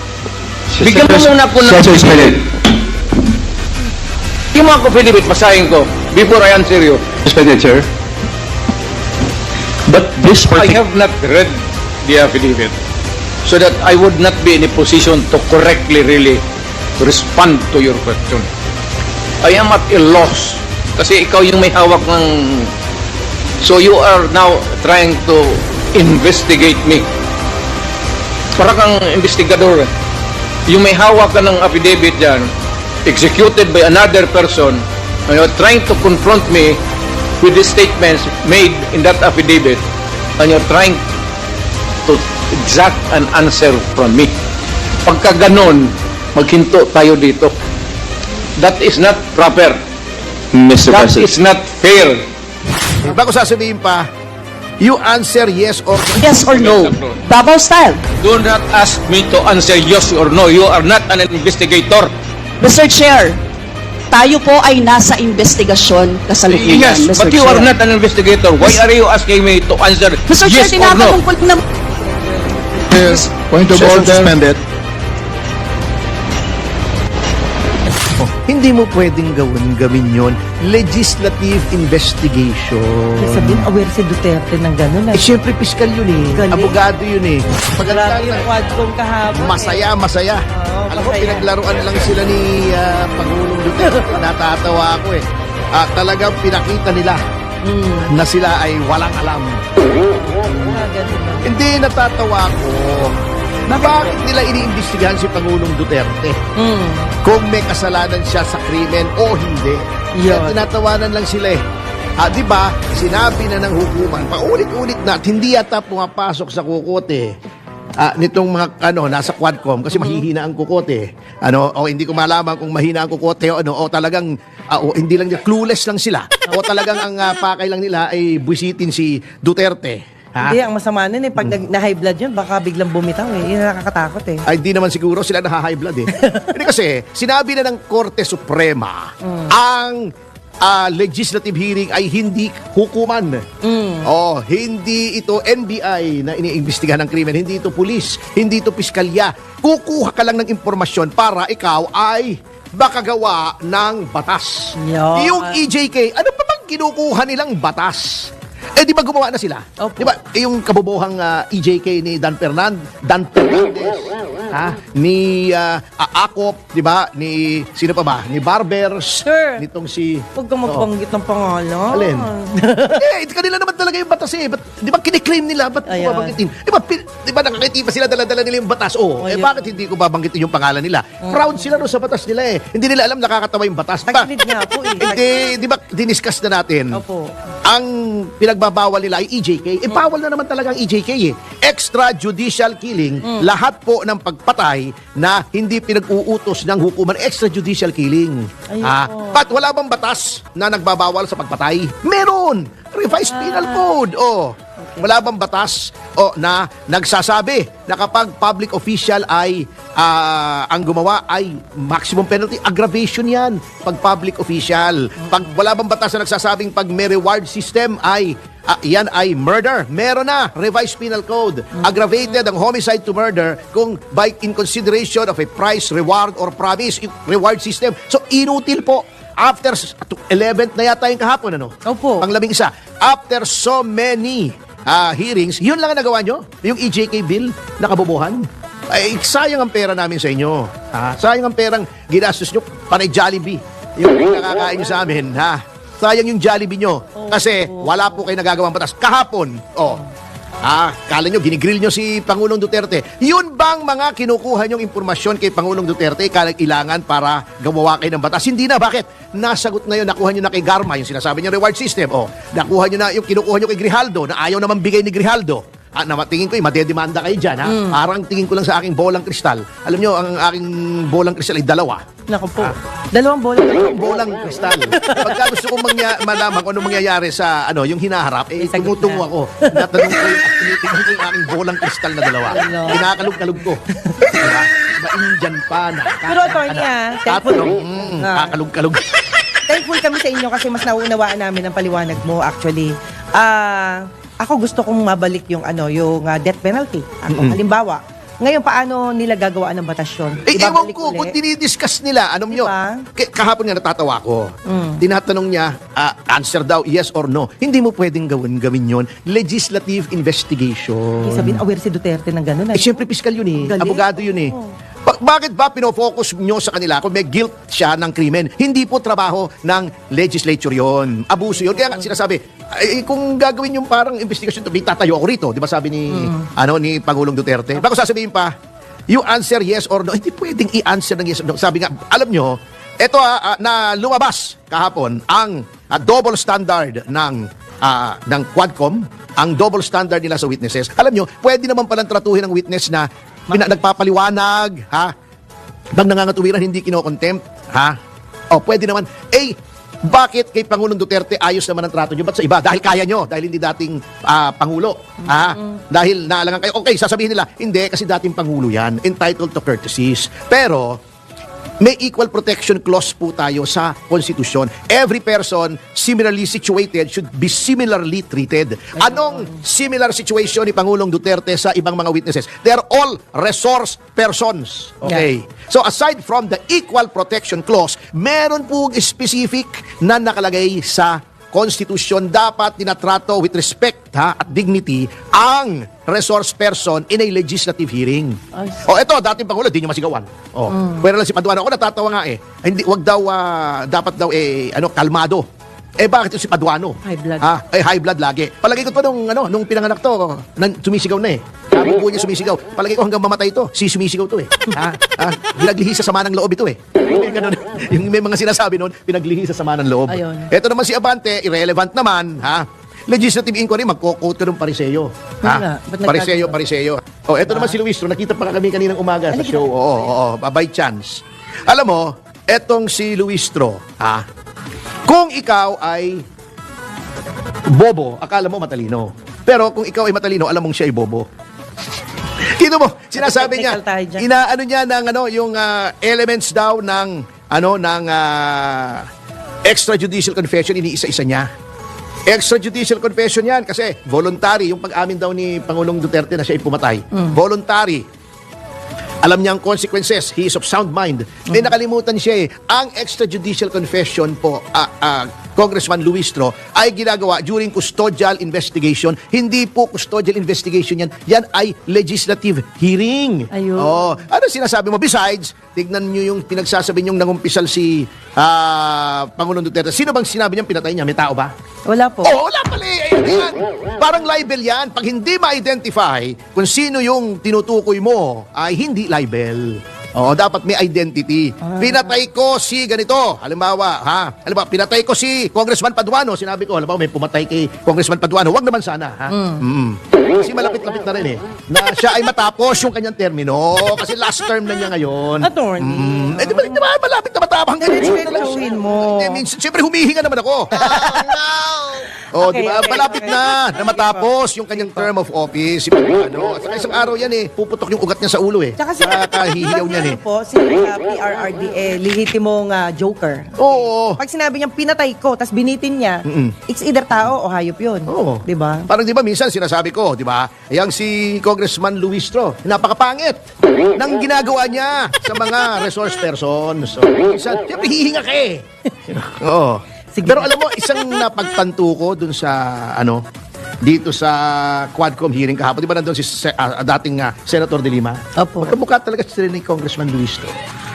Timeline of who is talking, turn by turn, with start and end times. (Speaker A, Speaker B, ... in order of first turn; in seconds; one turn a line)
Speaker A: 0.8-2.4
Speaker B: 0.8-2.5
Speaker B: 4.5-7.1
Speaker A: 7.2-7.9
Speaker A: 9.9-10.8
Speaker B: 10.4-12.8
Speaker B: 13.4-16.4
Speaker B: 17.0-18.5
Speaker B: 19.4-22.7
Speaker B: 23.6-27.1
Speaker B: 28.6-29.9
Speaker B: 30.7-32.5
Speaker B: 33.1-36.8
Speaker B: 37.4-39.9
Speaker B: 40.4-41.0
Speaker B: 42.1-44.3
Speaker B: 45.0-47.6
Speaker B: 48.6-49.8
Speaker A: 50.5-51.3
Speaker B: 50.9-52.3
Speaker C: 53.0-54.1
Speaker C: 54.8-56.3
Speaker D: 56.2-58.0
Speaker B: 56.2-57.2
Speaker B: 58.2-62.1
Speaker D: 62.6-63.4
Speaker D: 64.1-67.7
Speaker B: 66.4-71.3
Speaker D: 70.3-71.6
Speaker E: 72.0-73.0
Speaker A: 72.8-74.6
Speaker B: 73.8-74.3
Speaker C: 78.2-83.7
Speaker E: 83.2-85.3
Speaker C: 85.1-88.5
Speaker E: 86.3-86.8
Speaker E: 87.8-89.9
Speaker C: 89.3-97.2
Speaker E: 90.5-91.5
Speaker E: 93.8-94.2
Speaker E: 97.6-98.1
Speaker C: 98.1-99.6
Speaker E: 100.0-101.5
Speaker C: 101.4-106.4
Speaker E: 106.6-107.1
Speaker C: 107.2-111.6
Speaker E: 110.2-110.6
Speaker C: 112.2-117.4
Speaker C: 118.0-130.6
Speaker E: 119.9-120.3
Speaker E: 130.4-134.4
Speaker C: 134.5-140.1
Speaker E: 136.1-136.7
Speaker E: 139.2-139.6
Speaker C: 140.6-143.4
Speaker E: 143.6-144.1
Speaker C: 144.0-170.9
Speaker E: 154.8-155.6
Speaker E: 159.8-160.1
Speaker E: 169.2-169.6
Speaker E: 170.3-173.0
Speaker C: 171.9-172.3
Speaker C: 172.9-184.3
Speaker E: 175.9-176.4
Speaker E: 179.2-179.7
Speaker E: 181.2-181.8
Speaker E: 184.1-185.4
Speaker C: 185.0-187.0
Speaker E: 186.9-187.3
Speaker C: 187.7-250.0
Speaker E: 198.7-199.5
Speaker E: 203.1-203.9
Speaker E: 204.8-205.1
Speaker E: 215.2-215.5
Speaker E: 221.8-222.4
Speaker E: 231.9-232.3
Speaker E: 247.2-248.2
Speaker C: 250.6-272.0
Speaker E: 267.6-268.0
Speaker E: 272.3-273.9
Speaker C: 273.6-283.8
Speaker E: 274.7-275.6
Speaker E: 278.6-280.5
Speaker E: 282.5-283.1
Speaker E: 283.9-284.6
Speaker C: 284.3-289.1
Speaker E: 286.2-288.6
Speaker E: 289.7-301.4
Speaker C: 297.3-297.6
Speaker C: 300.5-311.6
Speaker E: 302.5-303.1
Speaker E: 304.7-305.0
Speaker E: 311.2-313.0
Speaker C: 312.7-314.6
Speaker E: 313.6-314.7
Speaker C: 315.1-328.5
Speaker E: 321.6-322.2
Speaker E: 326.1-326.4
Speaker C: 329.1-345.1
Speaker C: 346.0-348.0
Speaker C: 348.5-361.0
Speaker E: 355.3-355.6
Speaker C: 361.8-395.5
Speaker E: 369.0-369.5
Speaker E: 388.6-388.9
Speaker E: 390.7-391.1
Speaker C: 396.0-424.2
Speaker E: 397.1-397.5
Speaker E: 410.1-410.5
Speaker E: 415.4-416.6
Speaker E: 417.5-417.8
Speaker E: 419.3-419.7
Speaker C: 425.1-426.2
Speaker C: 427.7-431.3
Speaker C: 432.5-439.1
Speaker E: 433.1-434.3
Speaker C: 439.7-441.5
Speaker C: 442.3-448.1
Speaker C: 449.2-471.5
Speaker E: 463.5-464.2
Speaker E: 471.9-472.3
Speaker C: 472.2-510.2
Speaker E: 481.6-482.1
Speaker E: 489.3-489.6
Speaker E: 495.4-496.9
Speaker E: 497.8-499.4
Speaker E: 500.7-505.1
Speaker E: 508.8-518.9
Speaker C: 513.6-514.2
Speaker C: 516.3-516.6
Speaker C: 518.1-523.4
Speaker C: 524.0-533.2
Speaker E: 530.1-530.5
Speaker C: 533.8-540.5
Speaker E: 538.4-538.8